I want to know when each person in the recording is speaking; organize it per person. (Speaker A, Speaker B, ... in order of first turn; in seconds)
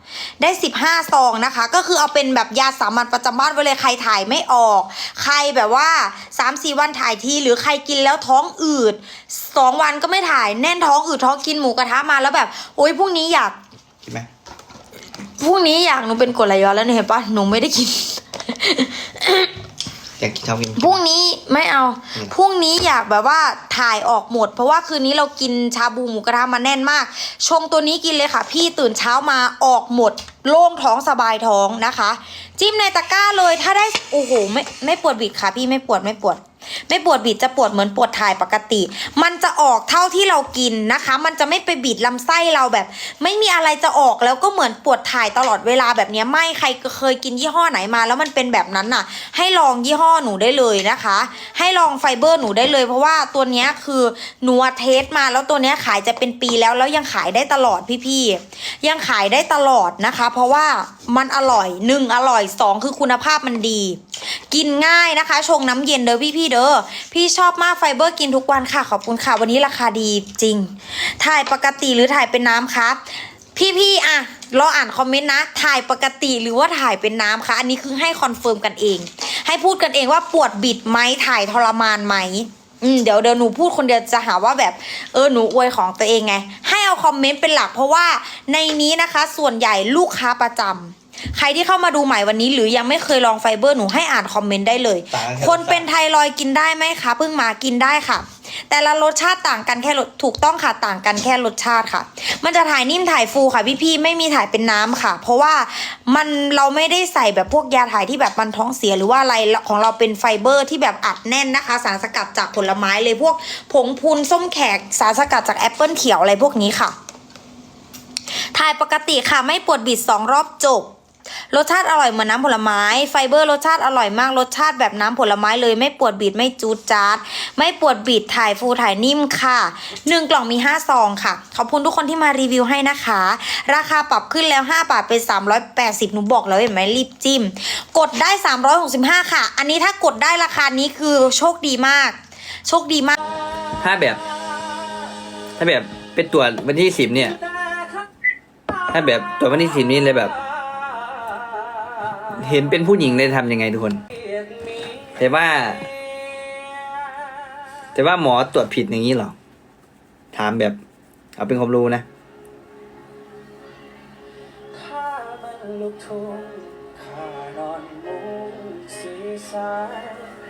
Speaker A: 0.4-13.6, 15.4-19.5, 20.8-117.0, 118.5-120.9, 121.5-143.2
Speaker B: 20.2-21.0, 95.1-95.9, 143.8-144.2, 145.6-147.4, 148.9-150.4, 152.3-154.0, 155.1-155.9, 157.9-159.3, 160.3-160.8, 161.4-162.1
Speaker C: 164.8-170.2